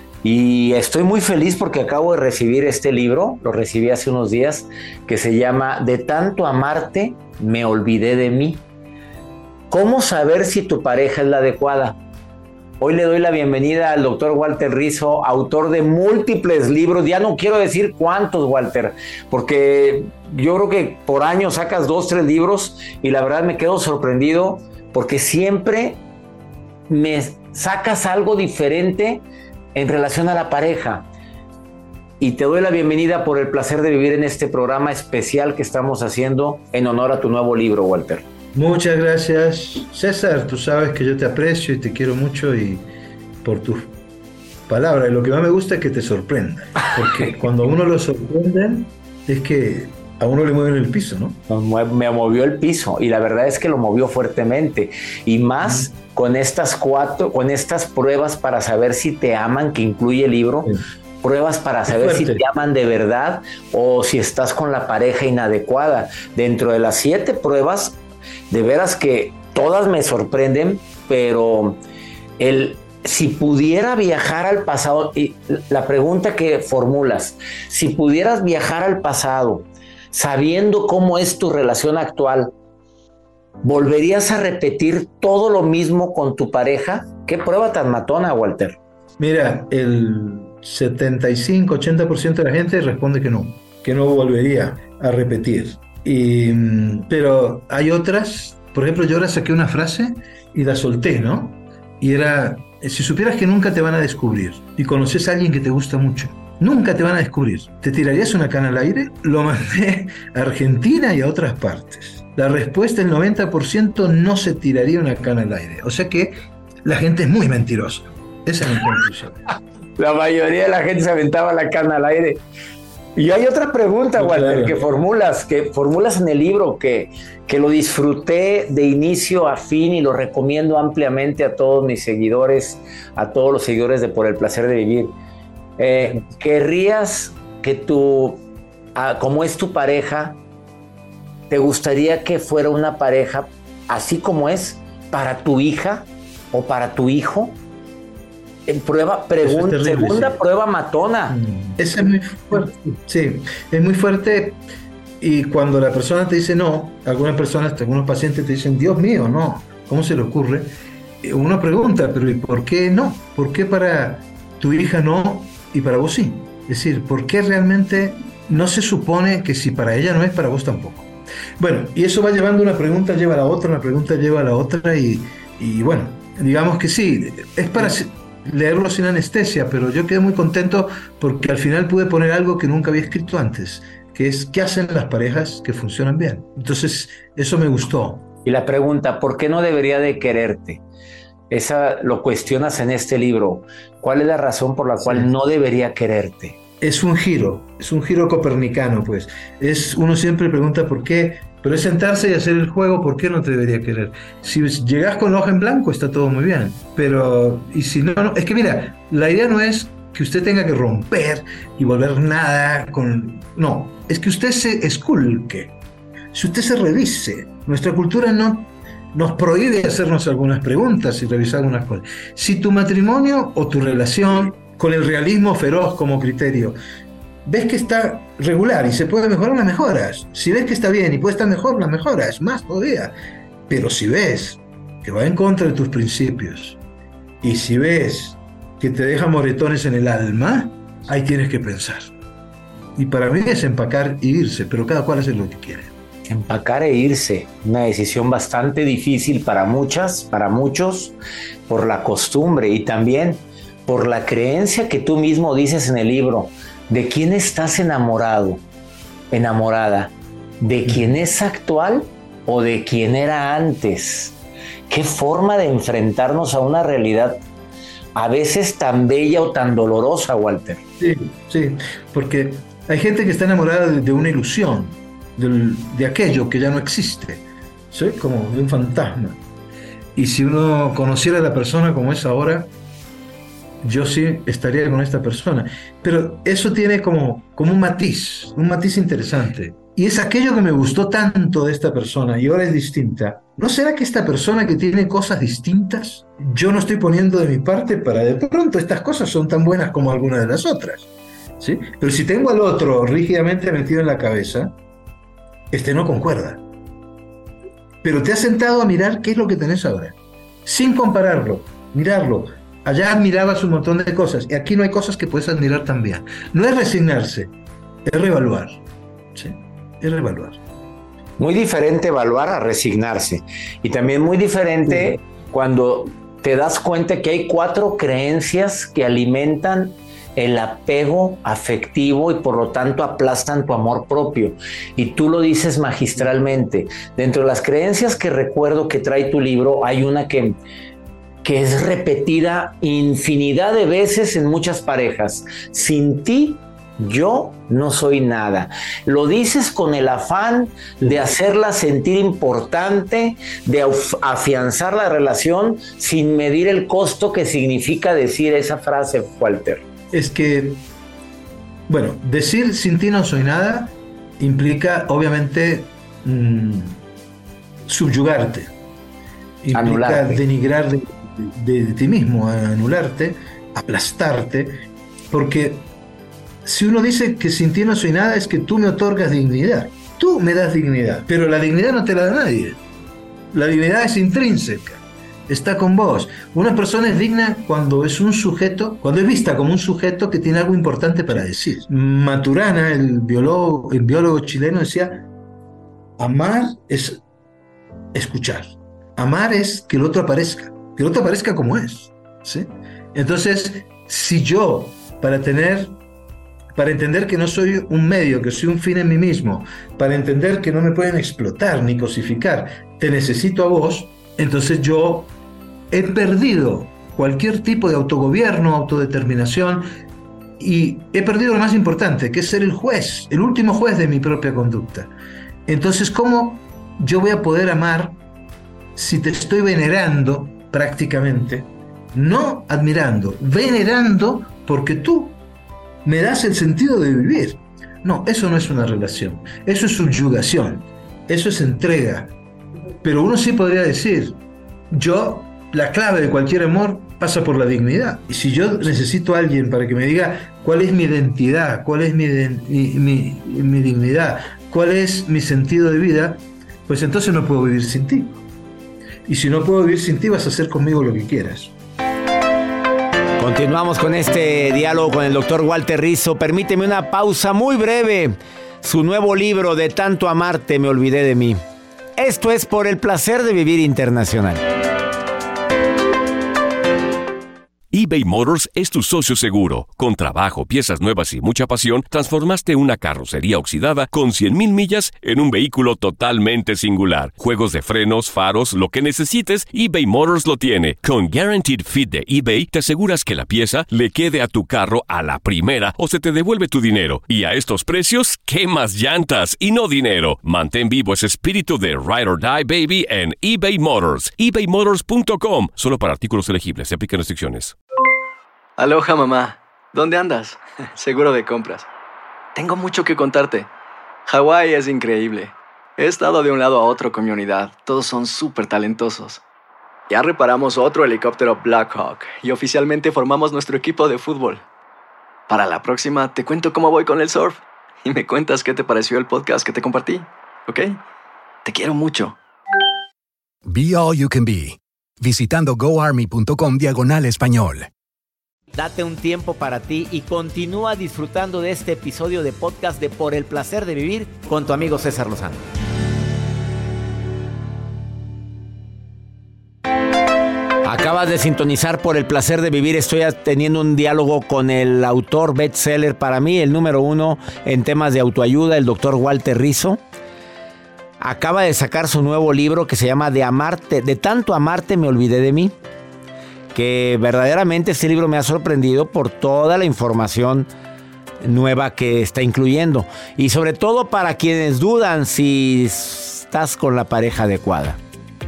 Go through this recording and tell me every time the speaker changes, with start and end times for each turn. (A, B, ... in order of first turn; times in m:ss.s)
0:00.2-0:08.6 A
0:09.7-0:12.0 A
0:12.8-0:26.0 A
0:26.9-0:29.2 A
0:29.8-0:31.1 A
0:32.2-0:38.2 A
0:38.5-0:42.8 B
0:43.4-0:43.9 B
0:44.7-0:51.4 B
0:51.5-1:08.0 A
0:55.6-0:55.9 B
1:01.9-1:02.4 B
1:08.5-1:11.8 A
1:12.4-1:22.5 A
1:23.6-1:28.8 A
1:29.2-1:59.4 B
2:00.0-2:02.4 A
2:03.2-2:15.1 A
2:04.1-2:04.8 B
2:15.8-2:18.4 A
2:19.0-2:20.4 A
2:21.5-2:27.6 A
2:28.7-2:31.4 A
2:29.4-2:30.4 B
2:31.3-2:34.6 B
2:35.2-3:08.3 B
3:08.4-3:10.8 A
3:11.5-3:16.6 A
3:15.0-3:15.3 B
3:16.8-3:35.7 B
3:36.3-3:46.8 B
3:47.4-3:53.1 B
3:53.7-3:56.8 B
3:57.4-4:02.1 B
4:03.0-4:05.9 B
4:06.3-4:11.2 A
4:11.7-4:18.6 A
4:19.3-4:24.4 A
4:20.9-4:21.1 B
4:24.9-4:27.4 A
4:28.2-4:30.8 A
4:31.0-4:39.4 B
4:40.2-4:42.7 B
4:43.8-5:01.1 B
5:01.6-5:04.7 B
5:05.7-5:06.6 B
5:08.0-5:17.5 B
5:18.1-5:18.8 B
5:19.4-5:20.6 B
5:21.4-5:40.6 A
5:41.4-5:59.8 A
6:00.1-6:00.8 B
6:01.9-6:07.0 B
6:07.9-6:08.7 B
6:09.6-6:14.8 B
6:09.7-6:10.4 A
6:15.3-6:15.9 B
6:16.6-6:22.8 B
6:23.5-6:35.2 B
6:36.2-6:37.2 B
6:38.1-6:46.0 B
6:46.8-6:55.3 B
6:55.9-6:59.9 B
7:00.6-7:05.1 B
7:05.7-7:08.2 B
7:09.0-7:15.4 B
7:16.0-7:22.3 B
7:23.0-7:24.4 B
7:24.9-7:38.4 B
7:39.3-7:41.7 B
7:43.4-7:51.6 A
7:52.2-7:54.6 A
7:57.9-8:27.8 C
8:28.8-8:31.9 D
8:32.6-8:33.7 D
8:34.3-8:39.4 D
8:40.1-8:44.6 D
8:45.5-8:51.0 D
8:51.6-8:52.4 D
8:53.7-8:57.9 E
8:58.8-9:05.6 A
9:10.8-9:20.0 A
9:21.2-9:25.8 A
9:26.7-9:30.7 A
9:31.4-9:38.0 A